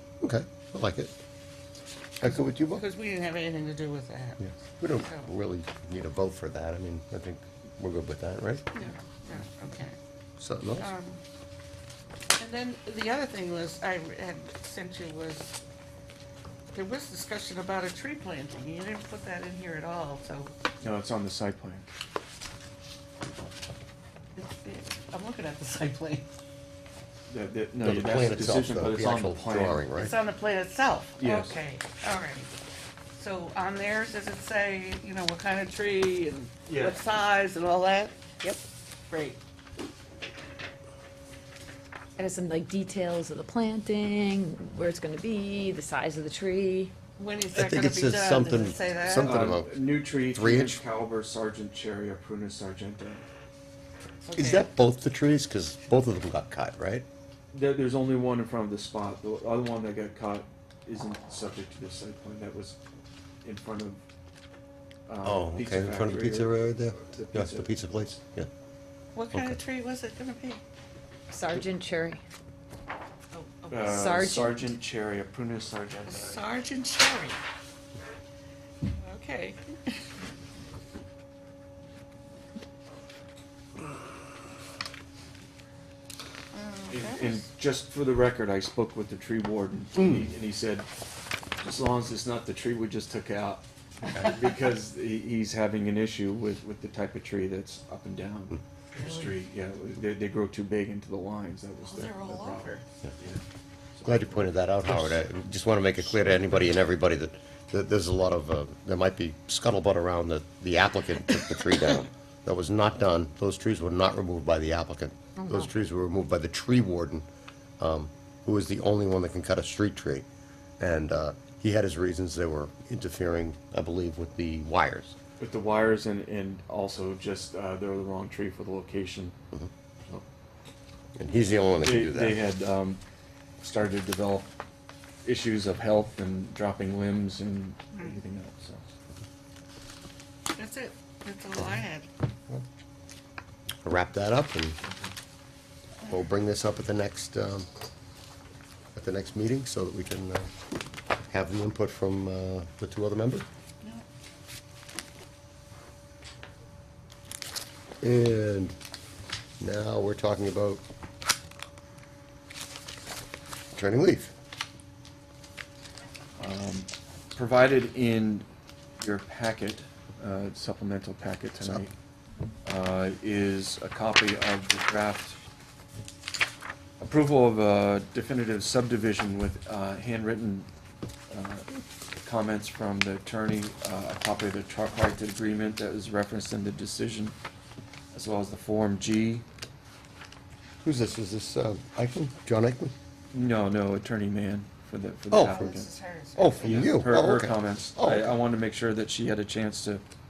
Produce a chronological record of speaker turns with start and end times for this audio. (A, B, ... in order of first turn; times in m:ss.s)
0:00.2-0:01.1 A
0:02.2-0:02.8 A
0:02.2-0:04.5 B
0:04.4-0:08.6 A
0:05.0-0:05.3 B
0:08.7-0:10.0 B
0:10.4-0:10.9 A
0:10.8-0:11.2 B
0:12.4-0:15.5 B
0:16.7-0:20.5 B
0:20.8-0:21.8 C
0:24.4-0:26.3 B
0:27.3-0:29.8 C
0:27.8-0:30.2 A
0:30.0-0:32.5 B
0:31.2-0:31.6 C
0:33.2-0:38.3 B
0:36.7-0:37.0 C
0:39.1-0:39.4 B
0:42.2-0:46.9 D
0:47.2-0:49.4 B
0:47.5-0:50.8 A
0:49.1-0:53.3 C
0:54.3-0:54.6 B
0:54.3-0:57.0 A
0:57.5-1:02.8 C
1:03.4-1:04.0 C
1:05.1-1:07.7 C
1:05.2-1:08.5 A
1:09.1-1:10.6 B
1:09.3-1:09.6 A
1:11.3-1:12.2 D
1:13.3-1:14.1 B
1:13.7-1:16.5 C
1:13.8-1:14.7 D
1:16.0-1:17.4 B
1:18.9-1:20.0 B
1:26.5-1:27.4 B
1:26.9-1:30.9 C
1:30.0-1:30.2 A
1:31.6-1:43.4 C
1:39.0-1:39.3 B
1:41.8-1:42.8 B
1:44.0-1:45.2 C
1:44.0-1:57.2 A
1:55.4-1:55.7 D
1:57.8-2:00.3 A
2:00.8-2:05.2 A
2:05.4-2:09.4 C
2:11.2-2:12.4 A
2:11.8-2:13.0 C
2:13.6-2:14.5 C
2:15.2-2:18.8 C
2:20.5-2:22.1 B
2:23.8-2:24.8 A
2:26.1-2:27.7 A
2:28.9-2:30.5 A
2:31.3-2:33.4 A
2:38.0-2:38.7 A
2:39.6-2:40.8 A
2:43.7-2:44.3 A
2:46.4-2:48.5 C
2:49.0-2:51.9 C
2:52.6-2:55.4 C
2:57.0-3:00.7 C
3:01.3-3:01.7 C
3:02.2-3:07.3 C
3:08.1-3:09.4 C
3:10.8-3:12.9 A
3:13.3-3:15.9 C
3:15.3-3:15.8 A
3:15.4-3:16.9 B
3:16.4-3:18.4 A
3:16.6-3:20.0 C